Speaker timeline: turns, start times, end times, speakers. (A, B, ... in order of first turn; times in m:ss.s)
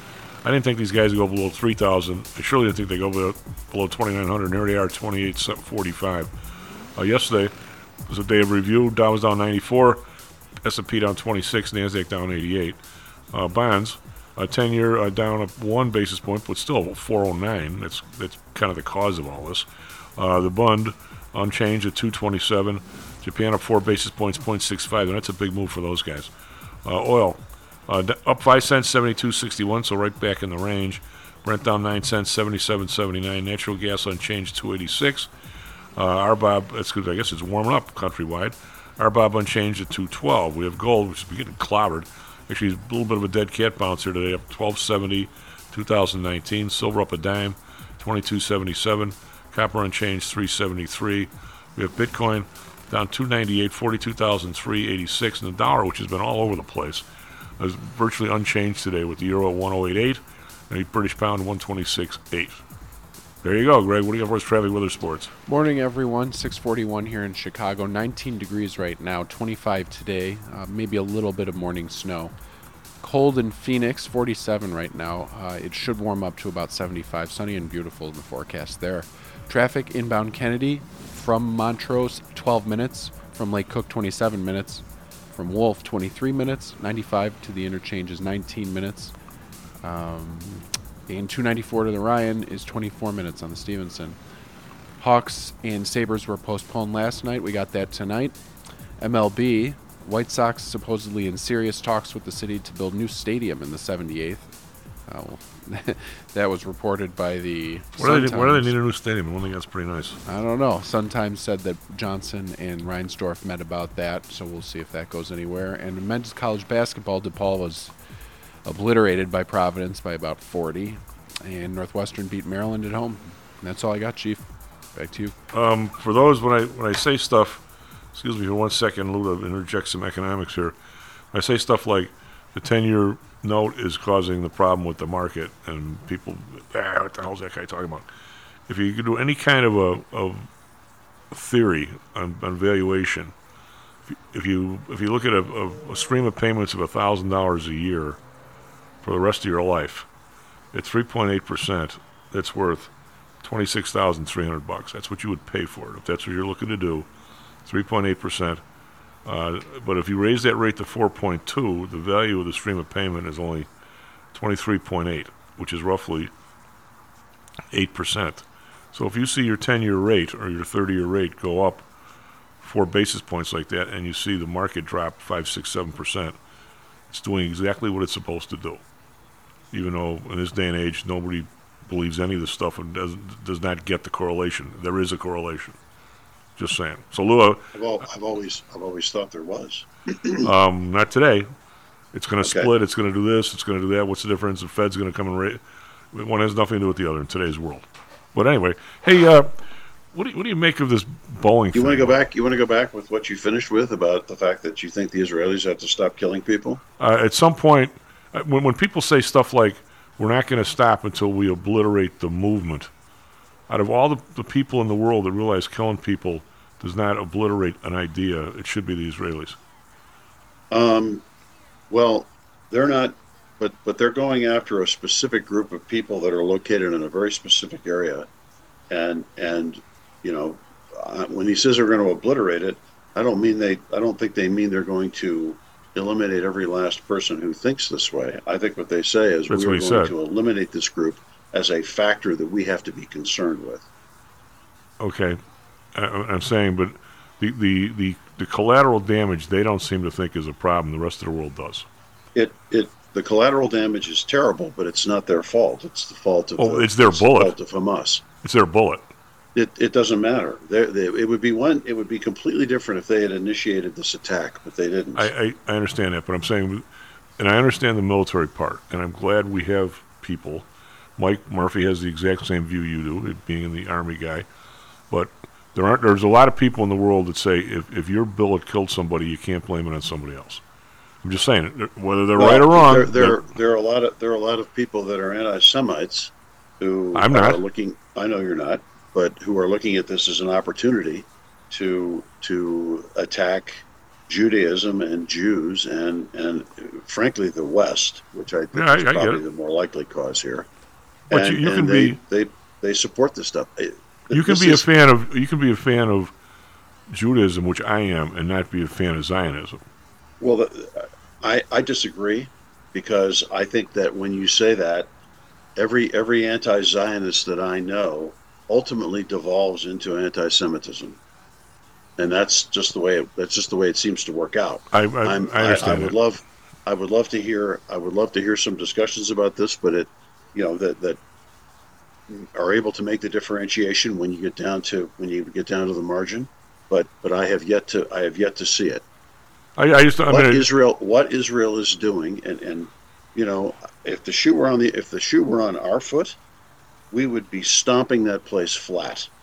0:00.4-0:06.3 A
0:07.0-0:07.5 A
0:08.1-0:10.0 A
0:10.6-0:12.8 A
0:13.3-0:19.6 A
0:20.2-0:26.3 A
0:26.8-0:35.3 A
0:36.0-0:57.0 A
0:57.6-1:02.6 A
1:03.4-1:05.3 A
1:05.5-1:12.3 B
1:13.0-1:24.8 B
1:25.4-1:29.1 B
1:29.8-1:34.2 B
1:35.0-1:38.4 B
1:39.0-1:44.5 B
1:45.1-1:48.8 B
1:48.0-1:50.2 A
1:50.2-1:57.9 B
1:58.6-2:05.4 B
2:05.5-2:07.6 A
2:08.1-2:10.7 A
2:11.3-2:18.0 A
2:18.7-2:20.5 A
2:21.3-2:23.3 A
2:24.1-2:28.2 A
2:29.0-2:30.0 A
2:30.7-2:32.9 A
2:33.4-2:37.1 A
2:37.6-2:38.6 A
2:39.2-2:43.7 A
2:44.3-2:46.3 A
2:47.7-2:51.8 A
2:52.6-2:56.3 A
2:57.1-2:58.8 A
2:59.7-3:05.8 A
3:06.6-3:07.6 A
3:07.7-3:10.4 C
3:10.4-3:11.5 A
3:12.1-3:15.6 A
3:12.4-3:12.7 C
3:16.1-3:19.6 A
3:20.1-3:22.1 A
3:21.7-3:26.8 C
3:27.0-3:32.9 A
3:33.7-3:39.6 A
3:40.7-3:41.2 C
3:41.9-3:48.3 C
3:48.9-4:03.9 C
3:59.5-4:00.1 A
4:05.0-4:05.4 A
4:05.9-4:11.8 A
4:12.3-4:18.2 C
4:16.6-4:17.5 A
4:18.4-4:19.0 A
4:19.5-4:25.3 C
4:25.2-4:26.8 A
4:27.4-4:30.6 A
4:31.2-4:34.4 A
4:35.1-4:40.6 A
4:41.2-4:43.4 A
4:42.4-5:00.6 C
4:47.1-4:47.6 A
4:58.7-4:59.4 A
5:01.3-5:02.2 A
5:01.3-5:04.8 C
5:04.3-5:06.3 A
5:07.1-5:09.8 A
5:10.4-5:15.1 C
5:15.8-5:21.2 C
5:22.2-5:31.2 C
5:24.9-5:26.2 A
5:32.3-5:39.0 C
5:39.8-5:40.7 A
5:40.3-5:46.4 C
5:47.1-5:49.3 C